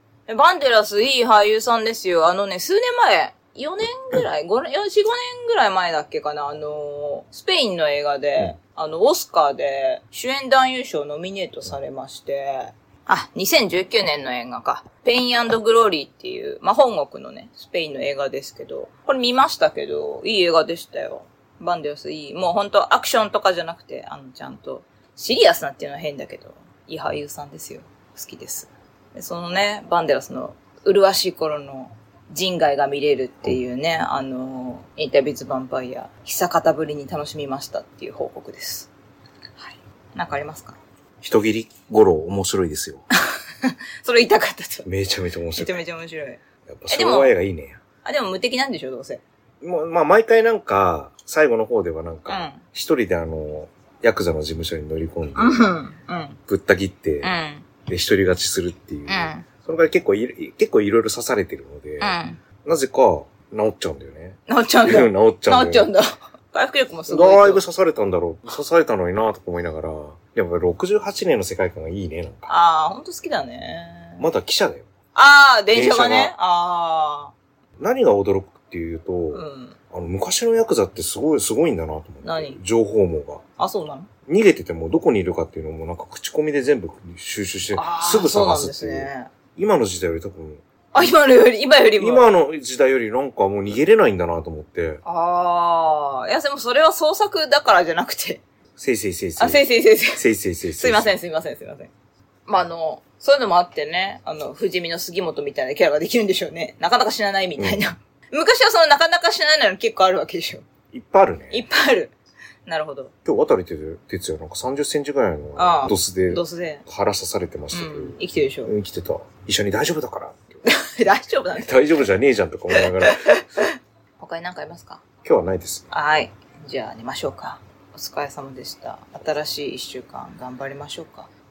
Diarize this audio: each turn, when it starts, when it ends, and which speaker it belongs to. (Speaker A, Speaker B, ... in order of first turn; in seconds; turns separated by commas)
Speaker A: 0.3-38.9, Speaker A: 39.6-40.8, Speaker B: 41.2-43.0, Speaker A: 43.2-44.9, Speaker B: 44.8-45.8, Speaker A: 45.5-47.3, Speaker B: 46.7-47.8, Speaker A: 48.0-49.2, Speaker B: 49.6-55.7, Speaker A: 52.3-52.6, Speaker A: 55.4-56.4, Speaker B: 56.5-57.3, Speaker A: 57.2-57.6, Speaker B: 57.9-65.9, Speaker A: 59.1-59.5, Speaker A: 62.0-62.4, Speaker A: 64.5-67.6, Speaker B: 67.1-72.5, Speaker A: 72.5-74.2, Speaker B: 74.2-74.9, Speaker A: 75.1-77.3, Speaker B: 75.7-76.3, Speaker B: 77.8-83.4, Speaker A: 79.3-79.7, Speaker A: 82.2-82.6, Speaker A: 83.6-84.1, Speaker B: 84.3-90.6, Speaker A: 87.7-89.3, Speaker A: 90.9-92.3, Speaker B: 92.0-95.0, Speaker A: 95.0-98.4, Speaker B: 98.8-101.1, Speaker A: 99.4-101.9, Speaker A: 102.5-110.6, Speaker B: 107.6-107.8, Speaker B: 110.9-111.6, Speaker A: 111.5-112.1, Speaker A: 112.7-113.1, Speaker B: 113.2-120.6, Speaker A: 115.5-116.8, Speaker A: 117.7-118.7, Speaker A: 120.6-121.7, Speaker B: 121.5-123.2, Speaker A: 122.7-125.0, Speaker B: 125.2-125.9, Speaker A: 125.9-131.3